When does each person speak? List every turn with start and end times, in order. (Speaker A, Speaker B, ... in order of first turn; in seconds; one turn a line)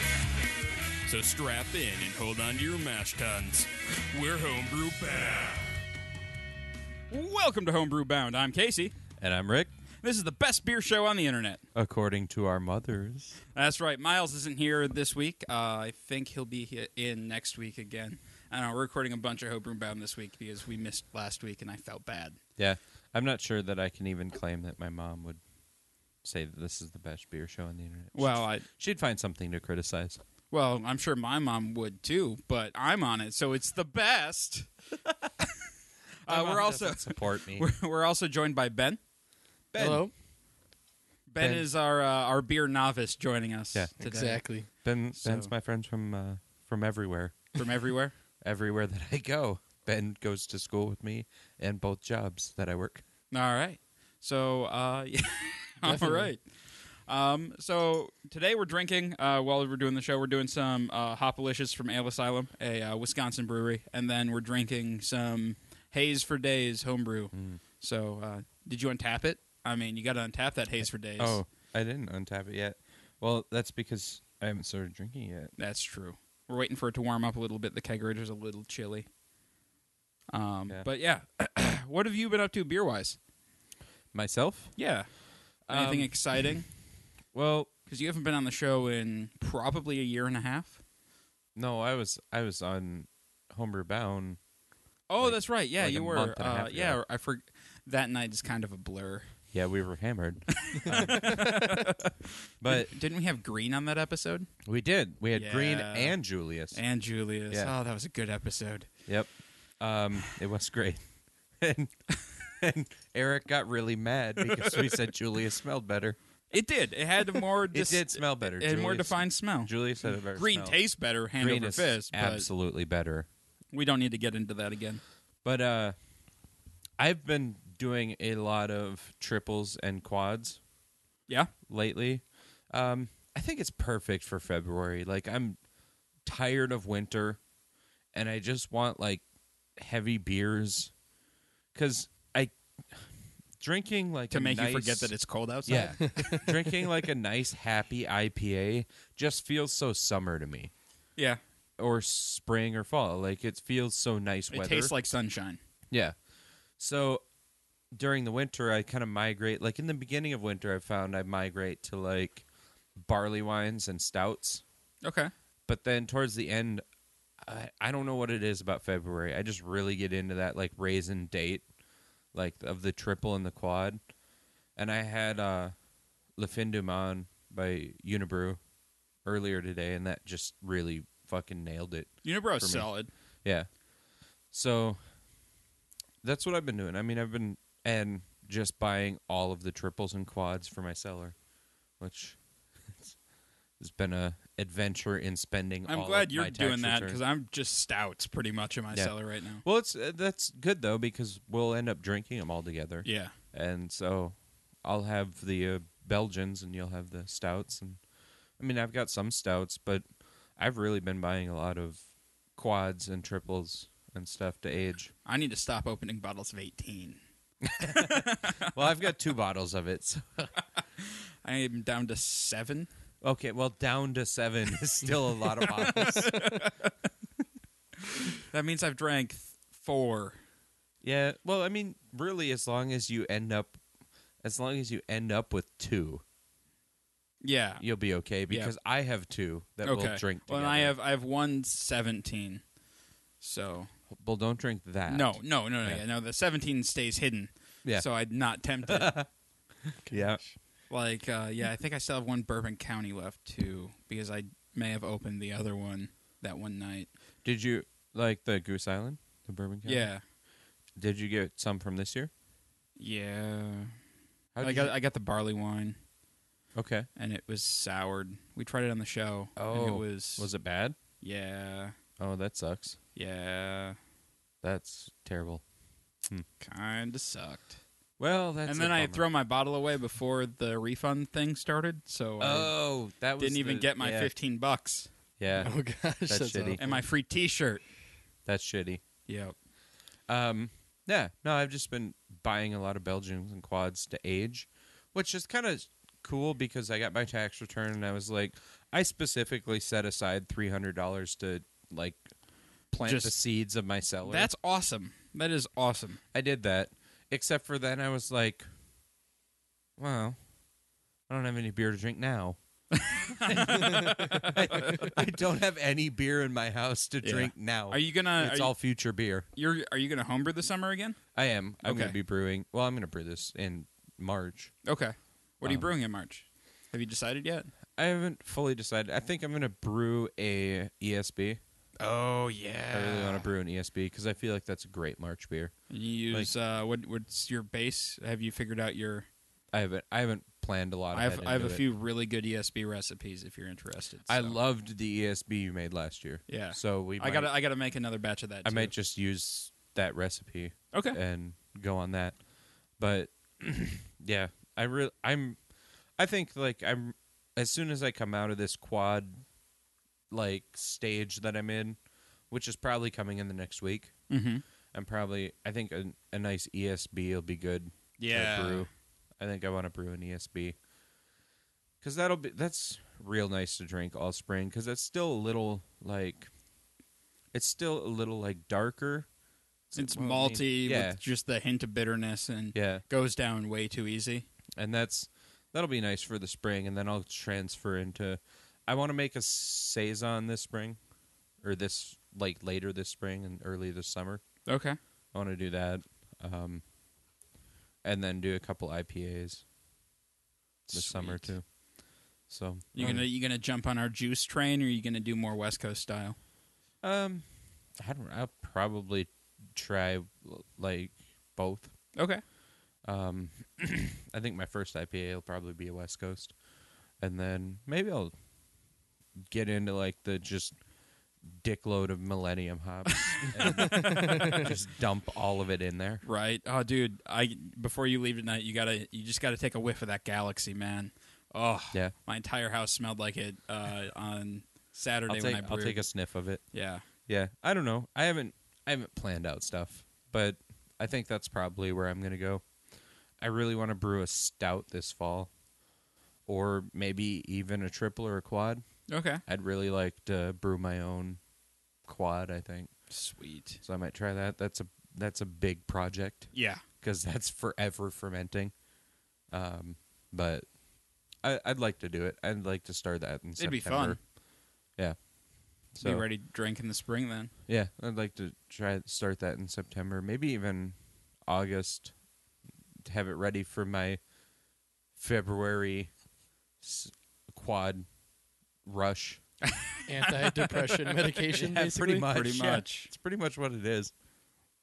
Speaker A: 1.1-5.6
Speaker A: 7.1-8.9
Speaker B: 9.2-9.7
Speaker A: 10.0-11.6
Speaker B: 11.7-13.4
Speaker A: 13.5-22.4
Speaker B: 22.6-25.4
Speaker B: 26.2-30.2
Speaker A: 28.1-28.6
Speaker A: 30.5-34.7
Speaker A: 36.2-39.0
Speaker B: 36.3-37.7
Speaker B: 39.7-40.0
Speaker C: 39.8-40.1
Speaker A: 41.3-44.4
Speaker B: 41.4-41.7
Speaker C: 44.0-44.7
Speaker B: 44.7-47.6
Speaker A: 45.1-45.5
Speaker A: 47.5-48.1
Speaker B: 48.4-53.0
Speaker A: 53.3-56.4
Speaker C: 55.8-56.3
Speaker A: 57.1-71.4
Speaker B: 67.3-67.6
Speaker B: 71.2-75.5
Speaker A: 75.6-79.0
Speaker A: 80.3-83.2
Speaker B: 84.1-84.8
Speaker A: 84.8-85.1
Speaker A: 85.7-86.7
Speaker B: 85.7-86.5
Speaker B: 87.3-87.7
Speaker A: 87.9-90.8
Speaker B: 91.5-94.4
Speaker A: 95.1-99.3
Speaker B: 95.2-97.0
Speaker B: 99.5-102.0
Speaker A: 100.6-104.5
Speaker B: 102.6-102.9
Speaker B: 104.6-106.8
Speaker A: 105.3-106.2
Speaker A: 106.7-108.9
Speaker B: 109.1-111.0
Speaker B: 111.6-116.2
Speaker A: 114.5-114.9
Speaker A: 116.5-119.7
Speaker B: 117.7-120.8
Speaker A: 120.3-122.5
Speaker B: 121.4-123.3
Speaker A: 123.7-125.0
Speaker B: 125.4-125.9
Speaker B: 127.0-130.6
Speaker B: 131.7-135.6
Speaker B: 136.2-137.4
Speaker B: 138.1-139.2
Speaker B: 139.8-140.9
Speaker B: 141.7-143.1
Speaker B: 143.6-145.1
Speaker A: 144.3-146.5
Speaker B: 145.7-150.7
Speaker B: 151.8-155.0
Speaker A: 154.5-155.6
Speaker B: 156.8-157.2
Speaker B: 157.9-162.4
Speaker B: 162.9-164.6
Speaker A: 165.0-165.3
Speaker B: 165.7-166.8
Speaker B: 167.4-171.6
Speaker B: 172.3-174.0
Speaker B: 174.8-175.7
Speaker B: 176.3-178.6
Speaker B: 179.2-182.9
Speaker A: 182.2-183.1
Speaker B: 183.4-183.8
Speaker B: 184.5-185.0
Speaker B: 186.2-191.3
Speaker B: 192.0-193.1
Speaker B: 193.8-197.2
Speaker A: 195.9-199.6
Speaker B: 198.9-208.0
Speaker A: 203.0-203.3
Speaker B: 208.6-210.0
Speaker B: 210.6-215.1
Speaker A: 215.2-217.2
Speaker B: 217.7-220.5
Speaker A: 217.8-218.7
Speaker A: 220.8-222.9
Speaker B: 223.2-226.7
Speaker A: 225.8-226.8
Speaker A: 228.5-230.4
Speaker B: 231.0-233.8
Speaker B: 234.4-236.2
Speaker A: 237.4-237.8
Speaker B: 237.8-240.9
Speaker A: 239.8-242.6
Speaker A: 243.4-243.9
Speaker B: 244.1-246.0
Speaker A: 245.1-249.1
Speaker B: 248.9-249.3
Speaker B: 249.9-250.4
Speaker A: 250.9-257.1
Speaker B: 257.4-260.1
Speaker A: 259.8-260.2
Speaker B: 261.0-262.3
Speaker A: 263.0-263.9
Speaker B: 264.5-264.9
Speaker A: 264.6-266.0
Speaker B: 266.7-267.1
Speaker A: 267.1-270.5
Speaker B: 269.6-270.9
Speaker A: 271.2-271.9
Speaker B: 272.2-273.0
Speaker A: 273.1-274.0
Speaker B: 274.6-275.6
Speaker A: 276.6-277.7
Speaker B: 278.2-279.2
Speaker A: 278.6-282.7
Speaker B: 282.4-284.3
Speaker A: 283.4-285.1
Speaker B: 285.4-286.8
Speaker C: 285.6-287.0
Speaker A: 286.8-287.8
Speaker B: 288.4-289.0
Speaker A: 289.2-289.5
Speaker B: 290.3-302.3
Speaker B: 302.9-304.5
Speaker A: 303.1-303.3
Speaker A: 304.2-306.2
Speaker B: 306.3-308.7
Speaker B: 310.0-310.4
Speaker B: 311.3-312.6
Speaker A: 312.9-315.1
Speaker B: 313.4-319.4
Speaker A: 317.2-318.7
Speaker A: 319.5-321.2
Speaker B: 321.3-324.8
Speaker A: 321.8-322.1
Speaker A: 324.8-327.7
Speaker B: 325.6-325.9
Speaker B: 328.0-331.6
Speaker A: 332.0-333.5
Speaker B: 332.9-335.7
Speaker A: 335.9-339.3
Speaker B: 339.7-341.8
Speaker A: 341.1-344.6
Speaker B: 344.3-347.5
Speaker A: 346.5-348.9
Speaker B: 348.6-352.4
Speaker B: 353.0-355.6
Speaker B: 356.2-359.4
Speaker B: 360.3-362.0
Speaker B: 362.5-364.3
Speaker A: 364.3-364.6
Speaker B: 364.9-368.9
Speaker A: 368.2-368.9
Speaker B: 369.4-370.8
Speaker B: 372.0-376.5
Speaker B: 377.5-379.3
Speaker B: 379.9-381.2
Speaker A: 379.9-384.4
Speaker B: 382.7-383.0
Speaker B: 384.8-391.0
Speaker B: 391.6-394.6
Speaker A: 394.7-395.0
Speaker B: 395.3-396.8
Speaker B: 398.0-399.6
Speaker A: 400.9-401.5
Speaker B: 400.9-401.7
Speaker B: 402.5-403.2
Speaker A: 402.9-406.4
Speaker B: 407.0-407.4
Speaker B: 407.9-411.9
Speaker A: 412.1-412.4
Speaker B: 413.0-416.5
Speaker B: 417.2-418.3
Speaker B: 419.5-420.8
Speaker B: 421.4-426.2
Speaker A: 423.1-424.7
Speaker C: 423.9-424.7
Speaker A: 426.2-436.0
Speaker B: 435.3-436.6
Speaker A: 436.7-437.0
Speaker B: 437.3-442.6
Speaker B: 443.4-445.5
Speaker B: 446.4-448.8
Speaker A: 449.1-449.4
Speaker B: 449.4-451.4
Speaker B: 452.1-452.9
Speaker A: 453.1-453.8
Speaker B: 453.8-458.7
Speaker A: 456.5-456.8
Speaker B: 459.5-460.6
Speaker B: 461.4-464.2
Speaker A: 463.6-464.2
Speaker B: 464.9-466.2
Speaker A: 466.0-467.5
Speaker B: 467.7-472.1
Speaker B: 473.0-474.2
Speaker B: 475.1-476.1
Speaker B: 476.8-478.1
Speaker B: 478.8-479.6
Speaker C: 480.1-482.3
Speaker B: 481.5-484.1
Speaker A: 482.3-483.1